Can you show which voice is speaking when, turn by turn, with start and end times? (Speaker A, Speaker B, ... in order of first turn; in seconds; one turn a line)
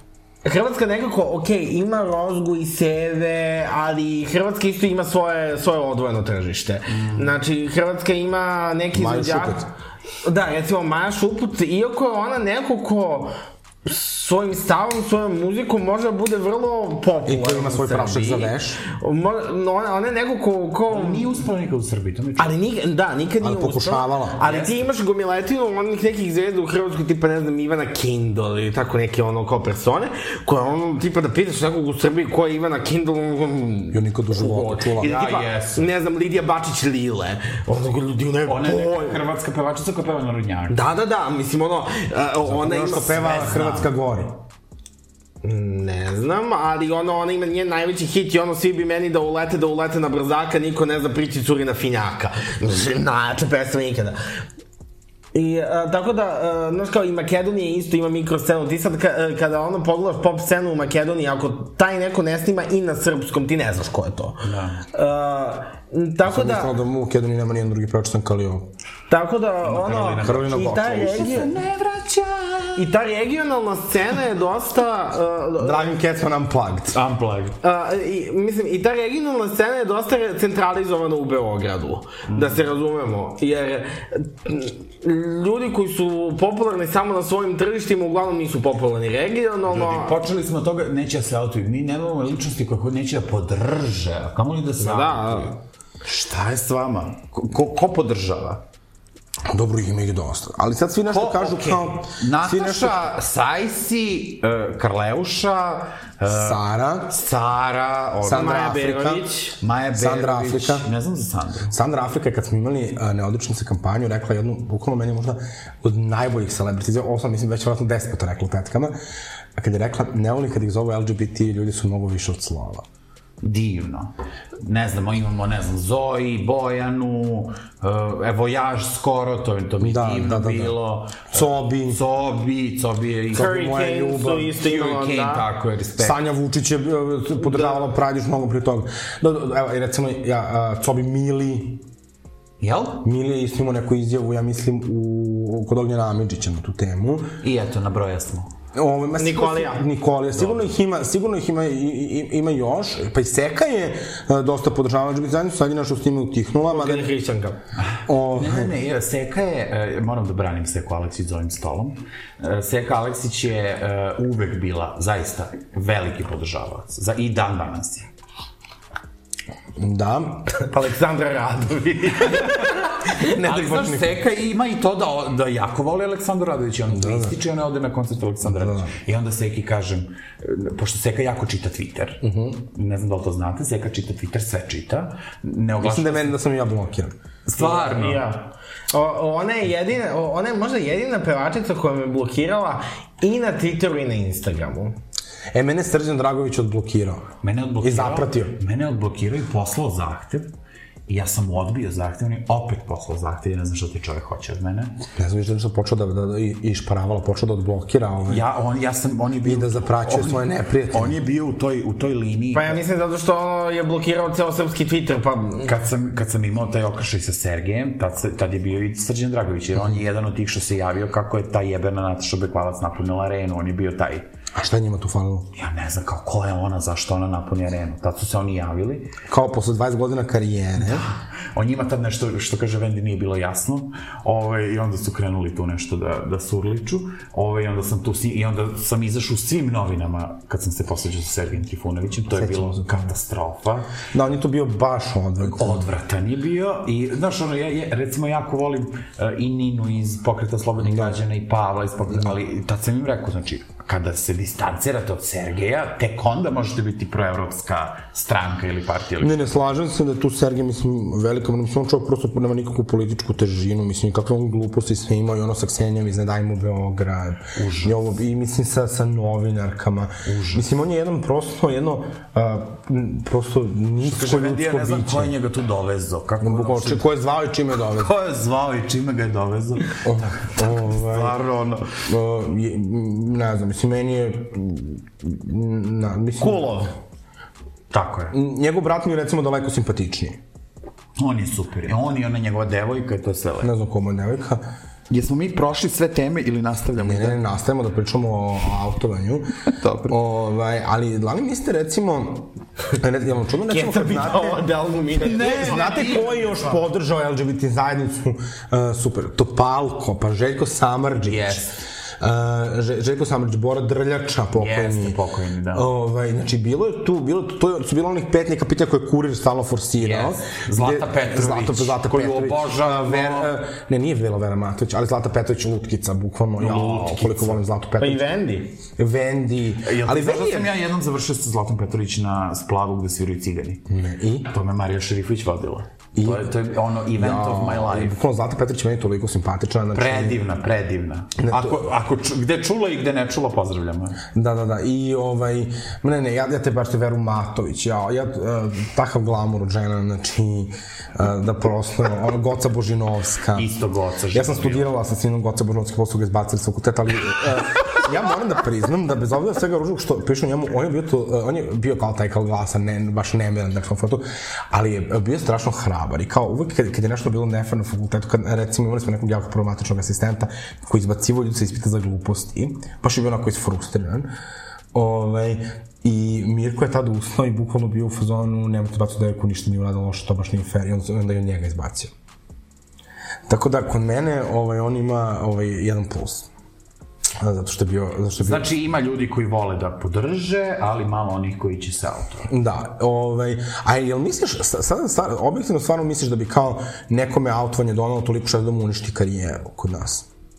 Speaker A: 0.4-9.6
Speaker B: 6.9-7.3
Speaker C: 8.9-9.7
Speaker A: 10.2-13.3
Speaker A: 13.8-21.3
Speaker C: 17.2-18.8
Speaker B: 20.9-22.6
Speaker A: 22.4-39.2
Speaker C: 23.4-24.4
Speaker B: 24.4-24.8
Speaker C: 33.9-35.1
Speaker B: 35.0-35.9
Speaker B: 38.5-40.8
Speaker A: 40.7-43.6
Speaker C: 42.4-44.4
Speaker B: 43.0-43.9
Speaker A: 45.4-54.2
Speaker A: 55.3-66.7
Speaker B: 64.4-64.8
Speaker C: 66.2-68.7
Speaker A: 69.1-71.5
Speaker B: 69.6-72.9
Speaker C: 70.2-71.4
Speaker A: 72.7-75.9
Speaker C: 75.6-77.0
Speaker B: 76.9-77.6
Speaker A: 77.6-90.2
Speaker B: 82.3-82.6
Speaker B: 89.7-98.6
Speaker A: 94.8-95.5
Speaker C: 99.5-103.1
Speaker B: 101.1-108.6
Speaker C: 106.3-107.1
Speaker C: 108.2-109.3
Speaker A: 108.3-109.6
Speaker B: 109.6-111.7
Speaker C: 109.9-110.9
Speaker C: 111.7-118.9
Speaker C: 119.5-122.8
Speaker B: 123.4-133.6
Speaker C: 129.8-130.8
Speaker C: 131.3-132.0
Speaker C: 133.3-134.5
Speaker A: 133.3-135.4
Speaker B: 134.6-136.2
Speaker C: 136.0-141.8
Speaker A: 137.5-137.7
Speaker B: 142.6-143.0
Speaker C: 143.0-147.3
Speaker B: 147.4-148.5
Speaker C: 148.7-157.1
Speaker A: 149.2-149.8
Speaker B: 150.3-150.7
Speaker A: 156.7-157.6
Speaker B: 157.9-168.1
Speaker C: 158.1-158.7
Speaker C: 169.8-170.6
Speaker A: 170.6-173.1
Speaker C: 173.2-174.2
Speaker B: 173.2-186.3
Speaker C: 176.9-177.3
Speaker C: 178.4-178.9
Speaker C: 182.2-182.6
Speaker C: 185.8-187.1
Speaker B: 187.4-188.2
Speaker A: 187.6-194.9
Speaker C: 195.5-198.6
Speaker B: 197.4-200.5
Speaker B: 201.1-205.0
Speaker C: 205.1-208.4
Speaker B: 208.3-212.8
Speaker C: 209.4-211.2
Speaker A: 212.5-215.7
Speaker B: 215.6-224.3
Speaker C: 224.5-225.5
Speaker B: 225.5-229.1
Speaker C: 229.3-231.1
Speaker B: 230.8-243.9
Speaker C: 242.3-243.1
Speaker C: 244.1-245.9
Speaker B: 245.4-259.5
Speaker C: 250.8-251.2
Speaker C: 259.2-275.3
Speaker B: 267.5-268.0
Speaker B: 270.2-270.7
Speaker B: 274.0-277.1
Speaker C: 276.4-278.1
Speaker B: 277.9-282.0
Speaker C: 280.0-281.4
Speaker C: 282.1-286.8
Speaker A: 286.4-286.9
Speaker B: 287.9-288.3
Speaker C: 288.3-290.4
Speaker B: 291.2-293.7
Speaker C: 293.6-294.6
Speaker B: 295.1-297.4
Speaker C: 297.0-299.5
Speaker B: 299.7-300.2
Speaker C: 300.1-304.6
Speaker A: 303.7-306.0
Speaker B: 305.2-306.8
Speaker C: 305.2-311.7
Speaker B: 311.3-311.8
Speaker C: 312.2-315.2
Speaker B: 314.6-315.9
Speaker C: 315.7-328.2
Speaker B: 320.0-323.5
Speaker B: 326.6-327.6
Speaker A: 328.0-328.7
Speaker C: 329.0-330.7
Speaker B: 329.8-333.8
Speaker C: 333.9-334.5
Speaker B: 334.5-338.1
Speaker C: 336.1-336.5
Speaker C: 337.1-340.4
Speaker B: 339.9-344.2
Speaker C: 341.4-341.8
Speaker C: 344.3-353.7
Speaker B: 353.5-354.9
Speaker C: 354.3-374.3
Speaker C: 374.9-382.1
Speaker C: 383.5-386.5
Speaker C: 387.4-388.7
Speaker B: 388.4-392.5
Speaker C: 392.5-400.3